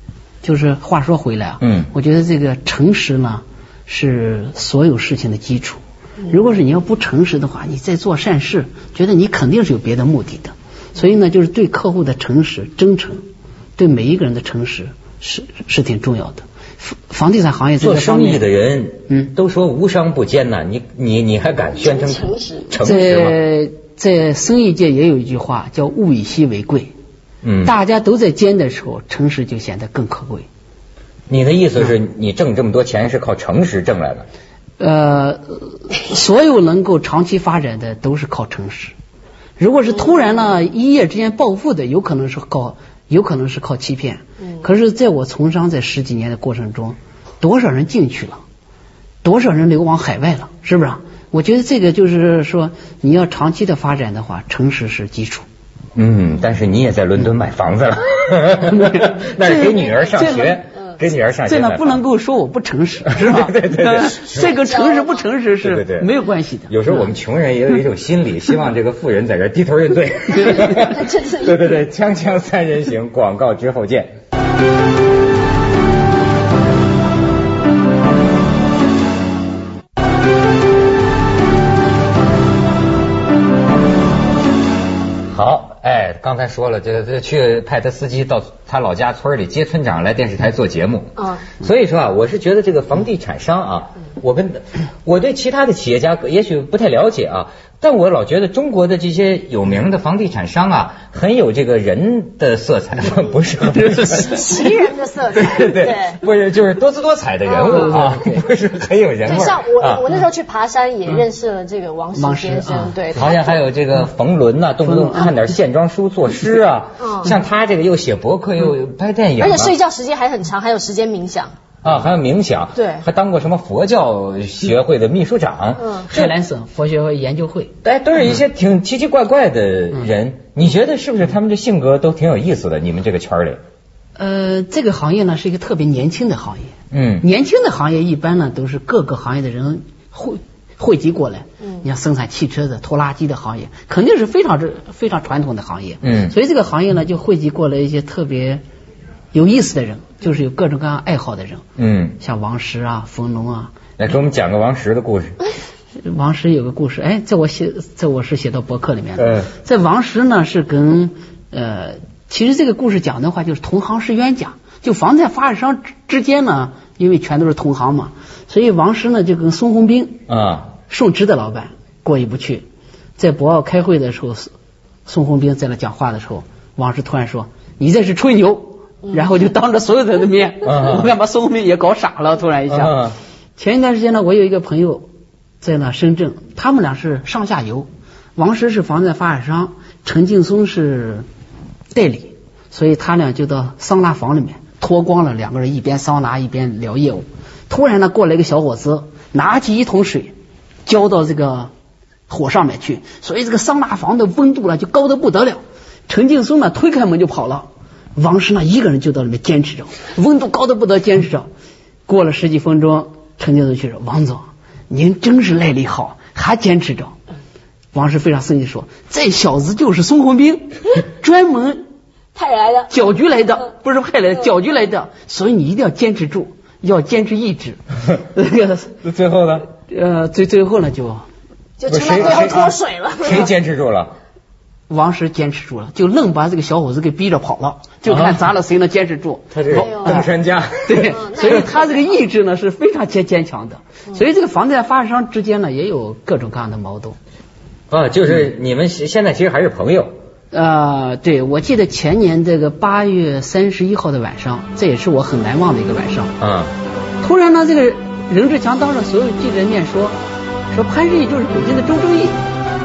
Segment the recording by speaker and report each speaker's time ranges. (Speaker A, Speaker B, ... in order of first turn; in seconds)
Speaker A: 0.4-13.2, 13.8-18.4, 19.1-19.3, 22.8-26.9, 27.6-30.5, 34.8-38.9, 39.6-48.4, 49.2-55.4, 58.6-60.6, 61.5-67.1, 103.7-104.4, 107.7-108.5, 112.2-113.0, 114.8-115.5, 126.1-127.7, 134.2-148.6, 149.3-151.6, 152.2-153.8, 156.0-170.2, 170.8-172.6, 173.2-174.5, 175.1-185.1, 185.6-191.2, 191.9-200.3, 200.8-201.7, 202.3-211.5, 212.1-217.1, 217.9-221.8, 222.9-228.9, 229.7-231.2, 234.9-240.3, 240.8-247.2, 250.5-256.3, 257.2-260.2, 260.7-262.4
Speaker B: 1.6-1.9, 17.8-23.4, 27.4-27.7, 31.3-34.3, 56.0-62.0, 63.1-64.6, 65.6-66.1, 66.7-74.1, 85.3-104.7, 105.3-110.0, 113.1-119.7, 121.8-126.3, 127.8-133.6, 136.9-137.2, 146.0-146.3, 151.8-152.2, 154.0-155.4, 159.2-159.5, 170.3-170.7, 180.6-181.1, 182.7-183.2, 229.0-229.7, 231.9-234.1, 238.1-238.4, 239.5-241.7, 247.9-250.1, 256.4-256.7
Speaker C: 21.8-22.7, 64.4-65.2, 71.0-71.4, 91.2-91.5, 104.1-106.2, 107.4-108.0, 109.2-113.6, 117.0-117.3, 119.4-121.5, 122.8-123.0, 125.8-126.1, 222.3-223.0, 231.8-233.5, 239.7-240.2, 241.0-242.2